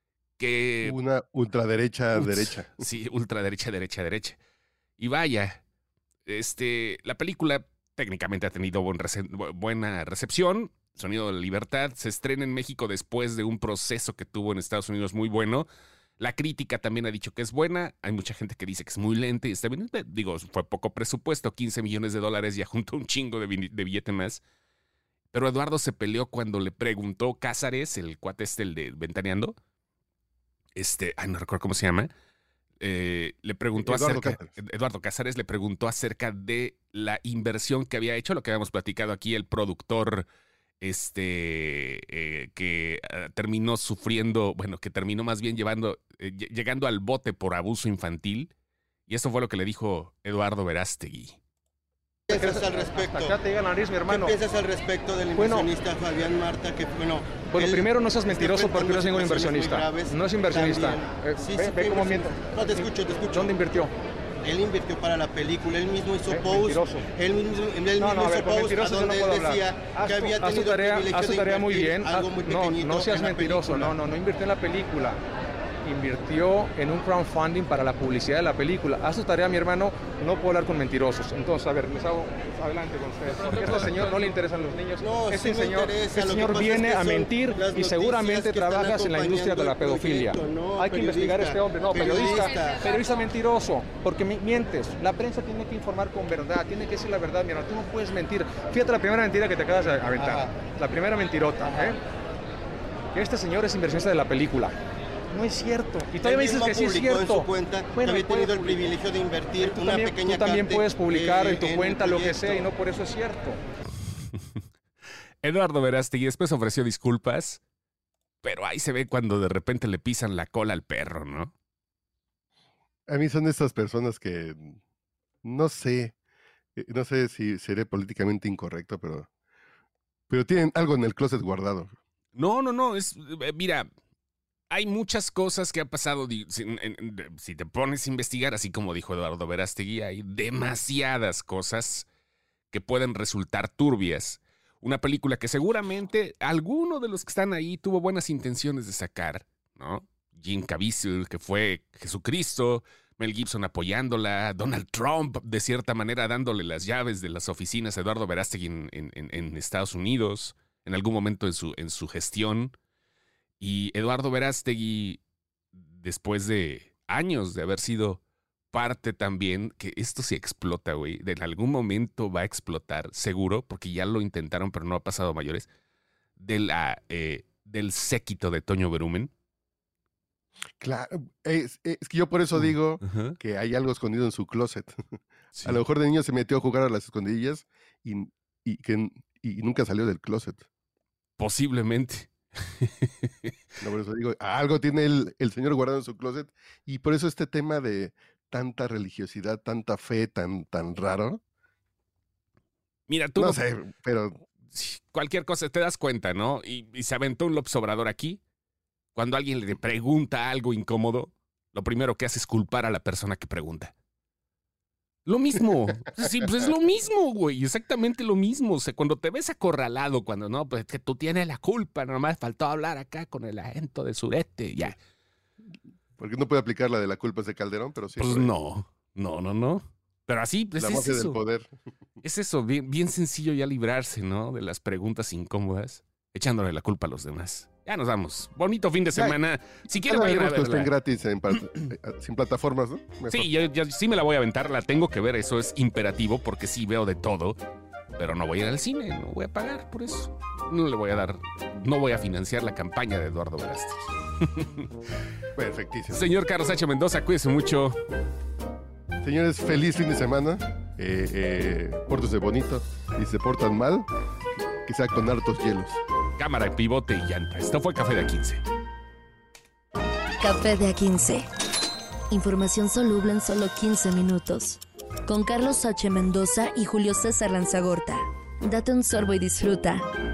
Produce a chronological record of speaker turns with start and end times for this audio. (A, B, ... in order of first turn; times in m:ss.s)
0:00.4-0:01.0 A
0:00.8-0:02.8 B
0:02.2-0:04.4 A
0:05.0-0:05.6 A
0:06.3-0:15.7 A
0:16.2-0:24.4 A
0:25.3-0:29.6 A
0:30.8-0:32.1 A
0:32.8-0:40.3 A
0:33.8-0:34.5 B
0:40.8-0:48.5 A
0:49.1-0:51.4 A
0:52.3-0:53.4 C
0:52.3-0:54.4 D
0:54.1-1:03.6 C
0:55.4-0:55.7 D
0:57.4-1:03.9 D
1:04.4-1:13.9 C
1:06.3-1:07.1 D
1:08.0-1:15.2 D
1:15.9-1:42.0 D
1:25.0-1:32.9 C
1:40.2-1:40.5 C
1:41.6-1:41.9 C
1:43.1-1:44.8 D
1:45.3-1:48.9 D
1:46.2-1:52.7 C
1:49.6-1:53.6 D
1:54.3-1:54.6 A
1:55.4-1:57.6 A
1:58.4-2:01.5 A
2:03.1-2:04.8 B
2:05.4-2:06.2 B
2:06.8-2:09.3 B
2:10.3-2:11.9 B
2:12.4-2:13.9 A
2:14.7-2:22.1 A
2:22.7-2:42.8 A
2:43.6-2:45.2 A
2:45.8-2:48.2 A
2:48.7-2:55.7 A
2:56.4-2:59.3 A
3:00.8-3:05.0 B
3:02.6-3:03.3 A
3:05.6-3:10.6 B
3:11.4-3:13.5 A
3:13.8-3:21.4 B
3:23.1-3:23.6 A
3:23.4-3:24.4 B
3:24.7-3:28.4 A
3:29.2-3:33.9 A
3:35.3-3:45.0 A
3:46.2-3:48.5 B
3:48.2-3:51.4 A
3:50.8-3:51.7 B
3:52.2-4:00.9 A
3:59.2-4:03.5 B
4:03.3-4:07.6 A
4:08.2-4:14.9 A
4:15.6-4:16.2 B
4:16.1-4:18.0 A
4:19.2-4:24.1 B
4:24.8-4:26.0 B
4:26.4-4:28.6 A
4:30.4-4:31.5 E
4:32.3-4:40.0 E